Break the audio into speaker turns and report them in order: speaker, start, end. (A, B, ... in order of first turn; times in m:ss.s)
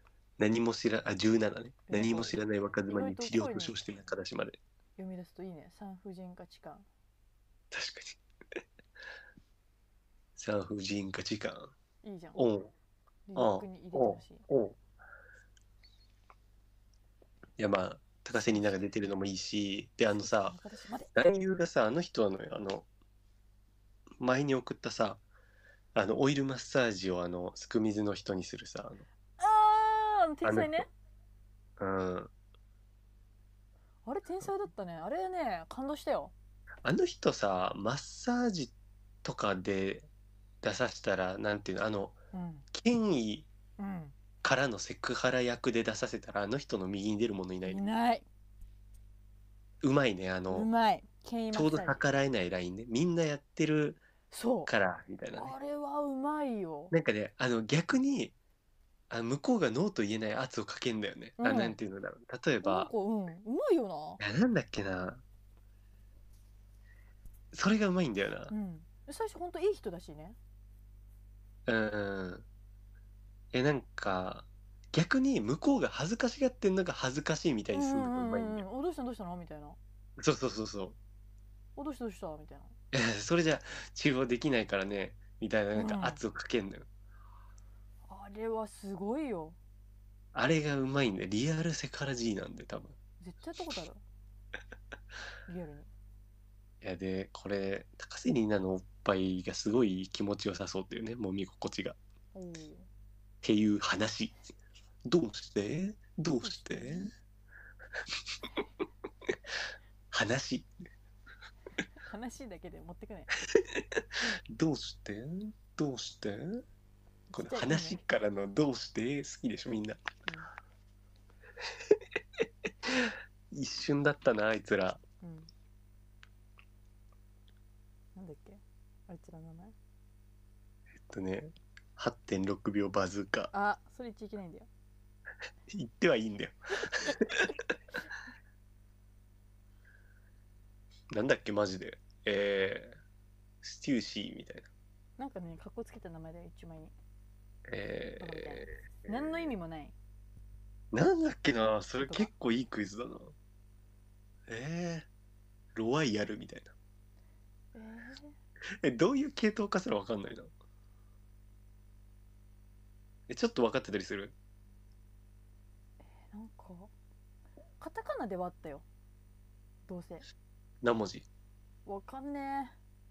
0:00.4-0:04.6 A
0:01.9-0:03.7 B
0:05.0-0:06.8 B
0:07.7-0:08.2 A
0:10.4-0:11.7 A
0:12.0-0:12.4 B
0:12.4-0:12.7 A
0:13.3-0:14.4 B
0:13.4-0:14.8 A
0:17.6-0:20.6 A
0:20.2-0:21.1 B
0:21.1-0:22.9 A
0:24.2-0:25.2 A
0:25.9-0:29.0 A
0:29.4-0:30.9 B
0:30.4-0:30.8 A
0:31.8-0:32.3 A
0:34.0-0:36.3 B
0:36.8-0:38.7 A
0:39.2-0:40.1 A
0:40.6-0:42.2 A
0:42.3-0:42.7 B
0:42.7-0:43.5 A
0:43.8-0:44.1 B
0:44.4-0:47.8 A
0:47.6-0:48.2 B
0:49.8-0:50.7 A
0:50.5-0:52.0 B
0:51.5-0:54.0 A
0:54.3-0:54.7 B
0:54.6-0:55.5 A
0:55.4-0:56.9 B
0:56.9-0:58.4 A
0:59.1-1:02.9 A
1:01.4-1:01.8 B
1:02.6-1:04.2 B
1:04.2-1:05.2 A
1:07.5-1:08.5 A
1:08.5-1:10.4 B
1:11.7-1:12.4 A
1:13.5-1:18.6 A
1:17.7-1:19.8 B
1:20.2-1:21.0 A
1:21.8-1:22.7 B
1:22.9-1:26.9 A
1:25.7-1:26.2 B
1:28.1-1:29.6 B
1:30.3-1:32.9 A
1:33.2-1:34.0 B
1:35.5-1:35.9 B
1:36.8-1:42.0 A
1:42.3-1:42.9 B
1:43.4-1:44.4 A
1:45.1-1:47.1 A
1:46.4-1:47.1 B
1:50.1-1:50.7 A
1:52.0-1:53.3 B
1:53.5-1:56.6 A
1:57.3-1:58.0 B
1:57.3-2:00.0 A
2:00.2-2:00.5 B
2:02.8-2:05.0 A
2:05.2-2:05.5 B
2:08.1-2:09.7 B
2:11.0-2:13.5 A
2:13.5-2:14.7 B
2:15.7-2:17.7 A
2:21.1-2:23.0 A
2:23.6-2:24.7 A
2:25.2-2:26.9 B
2:27.7-2:29.4 A
2:28.2-2:29.9 B
2:30.9-2:33.3 A
2:32.0-2:32.3 B
2:34.5-2:35.1 A
2:35.7-2:36.7 A
2:37.7-2:38.4 B
2:38.8-2:40.5 A
2:43.3-2:44.3 A
2:46.0-2:46.9 B
2:47.8-2:48.8 B
2:49.9-2:50.2 B
2:50.8-2:51.3 A
2:51.8-2:52.7 B